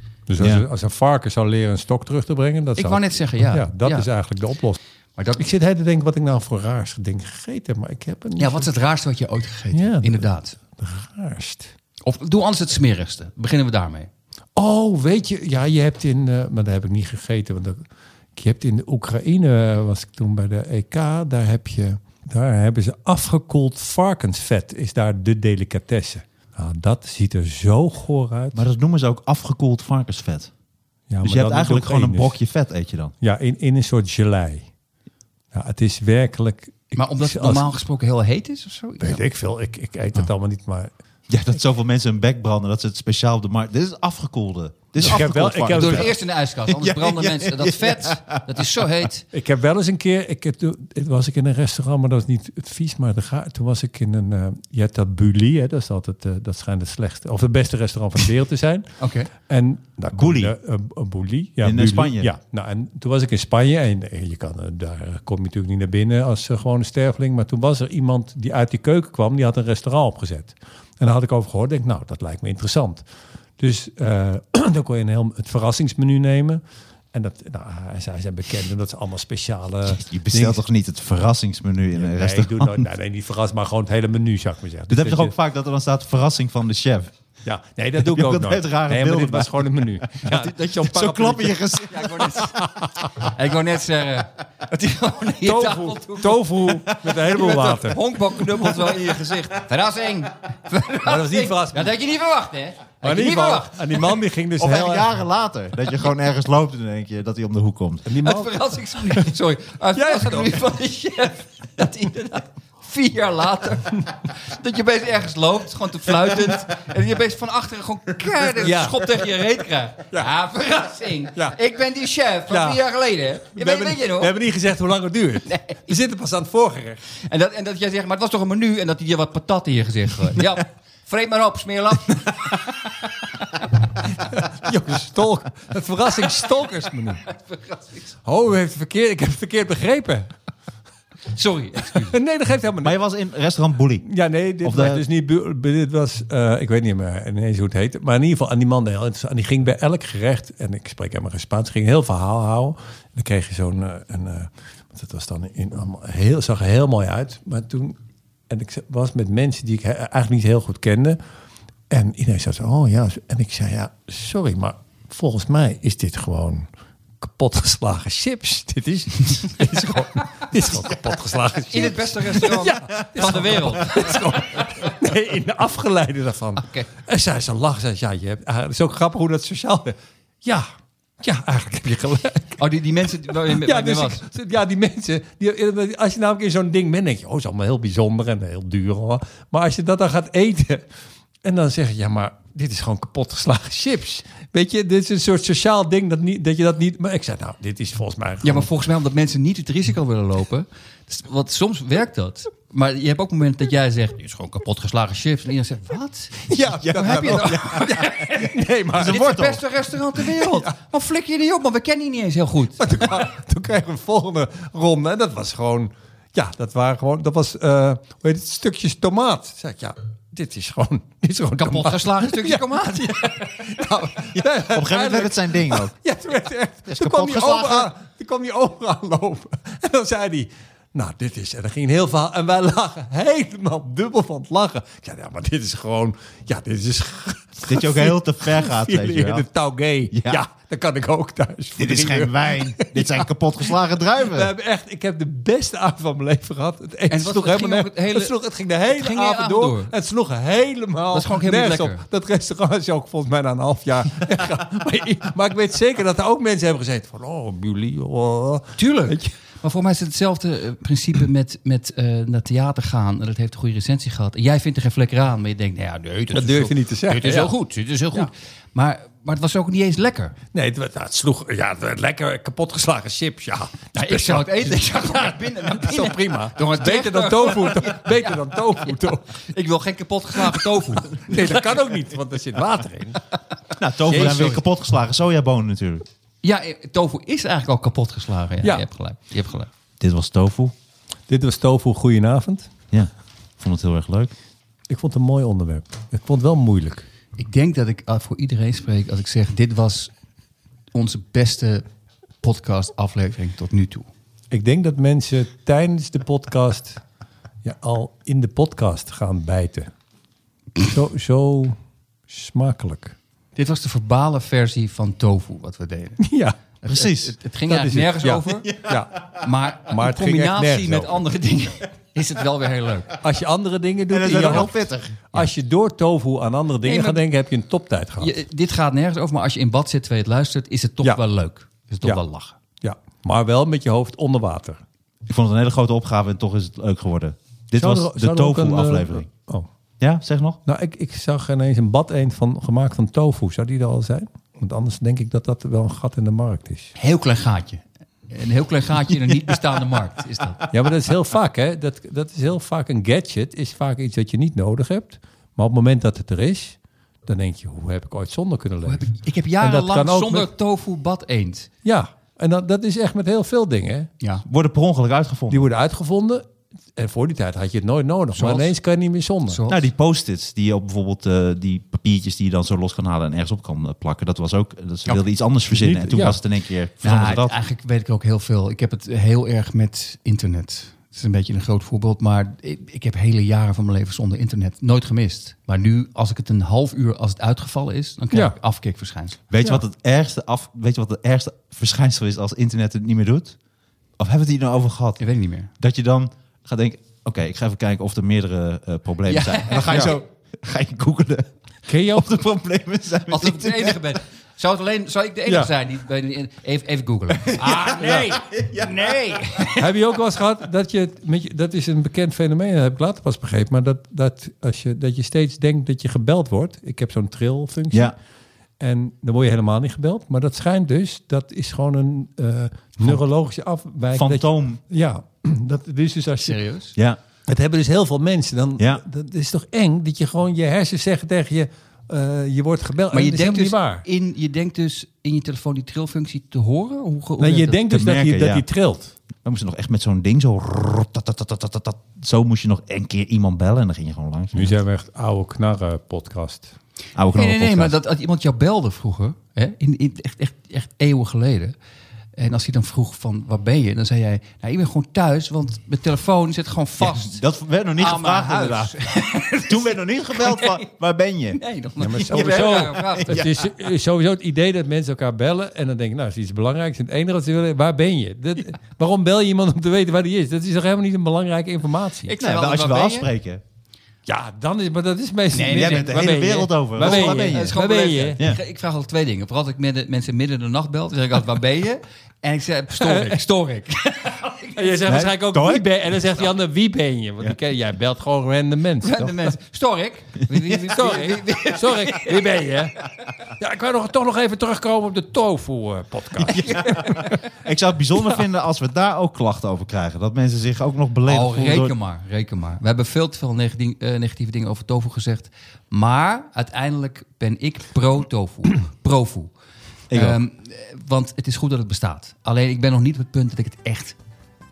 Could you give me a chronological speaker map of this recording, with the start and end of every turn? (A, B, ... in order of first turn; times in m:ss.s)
0:00.3-0:04.8 A
0:00.4-0:00.6 B
0:02.8-0:04.1 C
0:05.2-0:05.4 C
0:05.4-0:08.7 A
0:08.4-0:10.6 C
0:09.7-0:11.7 A
0:12.0-0:14.1 C
0:14.6-0:17.8 A
0:18.4-0:28.6 A
0:28.5-0:30.5 B
0:31.1-0:32.4 A
0:31.2-0:33.1 B
0:33.2-0:34.7 A
0:35.5-0:37.7 A
0:37.0-0:39.2 C
0:39.0-0:40.9 A
0:41.3-0:48.6 B
0:45.0-0:46.2 A
0:45.7-0:49.3 C
0:49.3-0:58.9 A
0:59.0-0:59.3 C
0:59.5-1:13.0 A
1:00.1-1:00.6 B
1:01.6-1:02.3 B
1:13.6-1:16.6 A
1:17.1-1:20.6 A
1:20.0-1:22.9 B
1:21.9-1:25.3 A
1:24.9-1:27.1 B
1:27.4-1:31.8 A
1:28.0-1:29.5 B
1:30.3-1:32.4 B
1:31.9-1:36.5 C
1:32.6-1:32.9 A
1:35.4-1:38.0 A
1:37.3-1:44.1 C
1:41.0-1:41.9 A
1:43.0-1:45.1 A
1:44.6-1:48.1 B
1:48.0-1:49.3 A
1:48.2-2:04.3 C
1:50.0-1:50.6 A
1:58.6-1:59.2 A
2:02.5-2:02.8 A
2:03.5-2:07.0 A
2:05.5-2:05.8 C
2:07.2-2:13.7 C
2:14.2-2:17.2 A
2:17.2-2:18.1 C
2:18.2-2:20.3 A
2:21.3-2:22.2 C
2:21.8-2:23.0 A
2:22.8-2:24.1 B
2:24.0-2:38.0 A
2:24.6-2:25.0 B
2:38.5-2:41.2 A
2:41.9-2:46.7 A
2:47.2-3:00.7 A
2:51.7-2:54.9 C
2:56.6-2:56.9 C
3:01.2-3:02.6 A
3:02.6-3:04.2 C
3:03.4-3:10.8 A
3:11.4-3:18.7 A
3:18.4-3:33.1 C
3:26.5-3:29.3 A
3:26.7-3:28.0 B
3:28.9-3:29.6 B
3:30.2-3:30.7 A
3:32.8-4:19.3 A
3:41.6-3:43.6 C
3:44.4-3:45.9 B
3:46.9-3:47.9 B
3:57.7-3:59.5 B
4:00.1-4:00.4 B
4:01.8-4:04.5 B
4:07.1-4:08.3 C
4:08.9-4:09.9 C
4:11.1-4:12.0 C
4:18.8-4:30.4 C
4:26.3-4:27.5 A
4:30.5-4:39.3 A
4:33.9-4:38.2 C
4:39.4-4:41.8 C
4:40.4-4:43.2 A
4:43.8-4:46.1 B
4:44.1-4:44.6 C
4:44.1-4:44.6 A
4:46.4-4:49.7 C
4:50.0-4:50.7 B
4:51.3-4:52.7 A
4:52.9-4:54.3 B
4:54.9-4:57.1 A
4:57.4-5:00.1 C
5:00.9-5:01.8 C
5:02.4-5:04.1 C
5:04.5-5:07.0 A
5:07.6-5:09.9 A
5:10.8-5:11.8 A
5:12.3-5:13.2 A
5:13.6-5:16.2 C
5:16.2-5:16.6 A
5:16.8-5:18.8 C
5:16.9-5:17.3 B
5:17.7-5:21.2 A
5:18.7-5:19.0 B
5:19.3-5:23.2 C
5:23.2-5:24.7 A
5:24.1-5:25.4 B
5:25.3-5:28.3 A
5:26.8-5:27.2 C
5:28.2-5:32.6 C
5:32.8-5:34.8 A
5:35.3-5:39.3 B
5:37.7-5:39.7 A
5:40.0-5:40.6 B
5:40.7-5:46.9 A
5:47.0-5:50.7 C
5:50.7-6:00.5 A
5:58.9-6:01.7 C
6:01.8-6:04.1 A
6:04.4-6:05.7 B
6:05.5-6:09.6 A
6:08.3-6:08.7 C
6:09.5-6:09.8 C
6:09.7-6:17.6 B
6:15.7-6:16.4 A
6:17.0-6:29.4 C
6:29.5-6:33.6 B
6:34.2-6:35.2 B
6:35.2-6:35.7 C
6:35.8-6:44.0 B
6:39.3-6:40.2 C
6:41.9-6:42.4 A
6:43.3-6:49.9 C
6:47.5-6:49.2 B
6:49.8-6:58.2 A
6:57.9-6:58.2 B
6:58.8-7:06.6 A
7:04.1-7:04.8 B
7:06.4-7:07.0 C
7:07.5-7:14.0 A
7:08.8-7:09.0 B
7:13.1-7:17.8 C
7:17.4-7:19.1 A
7:17.9-7:18.6 B
7:19.4-7:24.7 B
7:24.5-7:26.7 A
7:27.2-7:28.0 B
7:27.3-7:31.8 C
7:32.4-7:37.4 C
7:37.0-7:38.9 B
7:38.0-7:40.9 C
7:39.7-7:41.6 B
7:41.6-7:43.5 C
7:42.0-7:52.3 A
7:42.1-7:43.7 B
7:52.2-7:53.3 C
7:52.4-7:53.6 B
7:54.3-7:58.4 A
7:55.5-7:56.1 C
7:55.6-7:57.8 B
7:57.0-8:05.2 C
8:03.0-8:03.4 A
8:04.8-8:09.5 A
8:05.1-8:05.9 B
8:09.0-8:12.7 C
8:10.7-8:17.1 A
8:16.4-8:21.9 B
8:16.5-8:17.4 C
8:21.3-8:29.5 C
8:30.1-8:30.4 B
8:30.1-8:34.2 C